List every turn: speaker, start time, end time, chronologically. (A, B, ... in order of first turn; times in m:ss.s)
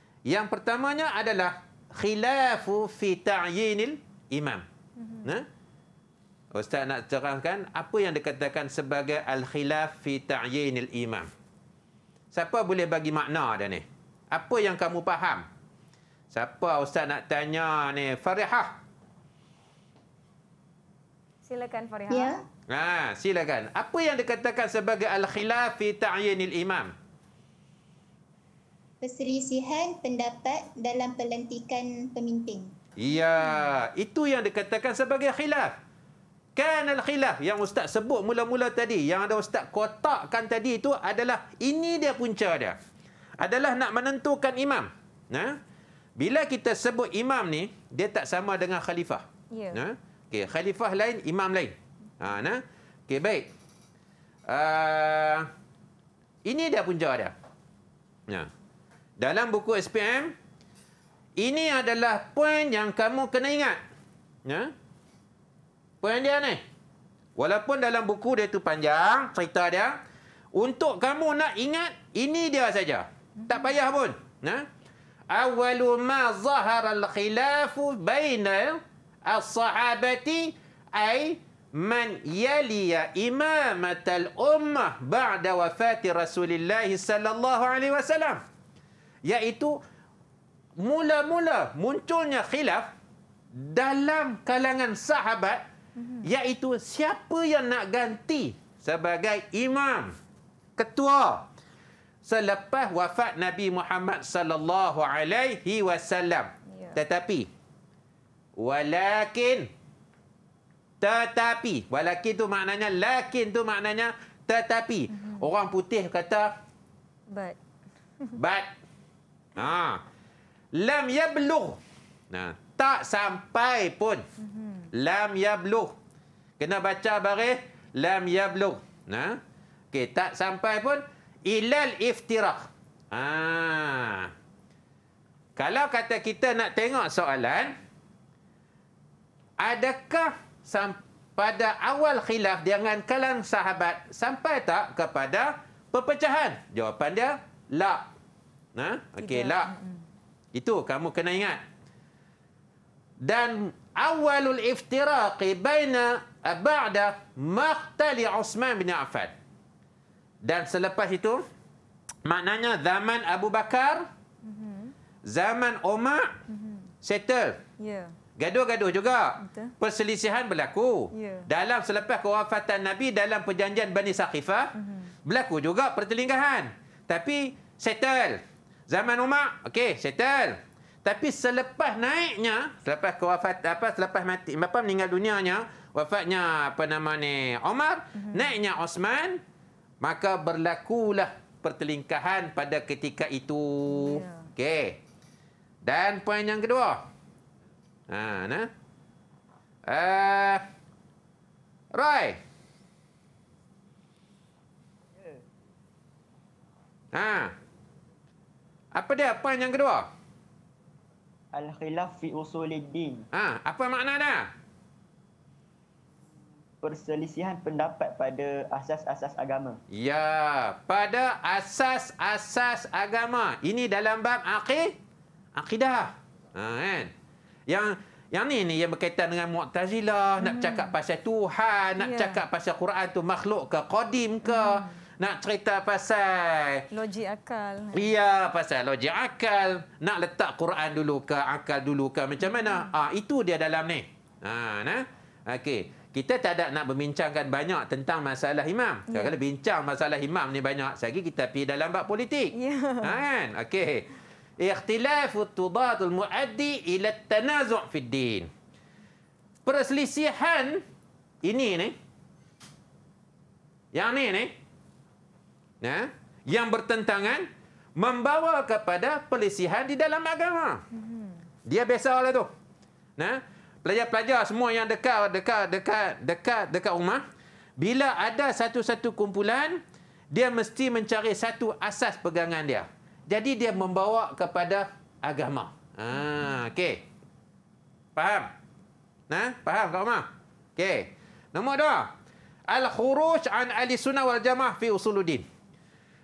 0:00.3-0:04.7 A
0:05.0-0:05.3 B
0:06.5-0:11.3 A
0:12.3-0:15.4 A
0:16.3-0:18.8 A
0:21.4-0:22.4 B
0:22.1-0:22.4 C
0:22.7-0:26.9 A
0:29.0-0:32.7 C
0:33.0-0:35.7 A
0:36.6-0:42.8 A
0:43.4-0:45.6 A
0:46.2-0:53.5 A
0:49.5-0:49.8 B
0:54.5-0:55.5 A
0:56.4-0:57.4 A
0:59.2-1:00.3 A
1:01.4-1:03.8 A
1:04.5-1:04.7 A
1:06.0-1:06.6 A
1:07.4-1:10.0 A
1:10.5-1:14.7 A
1:13.4-1:13.7 B
1:15.3-1:28.4 A
1:29.3-1:29.8 A
1:30.8-1:32.9 A
1:33.5-1:35.6 A
1:36.0-1:36.3 B
1:36.2-1:40.1 A
1:40.8-1:41.5 A
1:42.2-1:47.5 A
1:46.7-1:47.0 B
1:48.6-1:49.7 A
1:51.0-1:56.5 A
1:55.1-1:55.4 B
1:57.3-1:57.6 B
1:58.4-1:58.7 A
1:59.6-2:00.0 A
2:00.7-2:01.8 A
2:02.3-2:04.2 A
2:04.4-2:04.9 B
2:04.9-2:06.0 A
2:06.6-2:09.4 A
2:09.9-2:14.3 A
2:15.6-2:17.7 A
2:19.6-2:28.1 A
2:28.8-2:29.7 A
2:29.2-2:30.0 B
2:30.5-2:31.6 A
2:33.2-2:39.3 A
2:40.4-2:41.4 A
2:42.2-2:44.1 A
2:44.4-2:44.9 B
2:45.3-2:46.4 A
2:46.5-2:46.9 B
2:47.0-2:47.6 A
2:47.8-2:48.2 B
2:48.4-2:54.7 A
2:49.4-2:49.7 B
2:51.1-2:51.5 B
2:54.8-2:55.1 B
2:55.3-3:09.4 A
3:08.2-3:08.5 B
3:10.0-3:15.0 A
3:13.9-3:14.5 B
3:15.8-3:17.1 A
3:18.1-3:18.7 A
3:19.9-3:20.6 A
3:21.9-3:22.4 A
3:27.1-3:27.5 A
3:29.0-3:30.1 A
3:31.5-3:33.2 D
3:33.3-3:34.5 A
3:36.8-3:39.8 D
3:39.9-3:45.0 A
3:45.6-3:47.1 A
3:47.7-3:56.8 A
3:50.4-3:51.0 B
3:52.0-3:52.4 B
3:54.4-3:55.0 B
3:56.9-3:58.1 B
3:57.9-4:14.1 A
4:02.4-4:02.9 B
4:09.1-4:09.4 B
4:12.6-4:13.2 B
4:14.6-4:18.5 A
4:19.6-4:20.8 A
4:21.4-4:22.0 A
4:23.9-4:24.5 A
4:25.8-4:30.8 A
4:30.9-4:31.5 B
4:31.6-4:32.5 A
4:33.2-4:37.2 A
4:37.8-4:47.0 A
4:48.2-4:48.5 A
4:49.3-4:52.1 A
4:52.7-4:55.4 A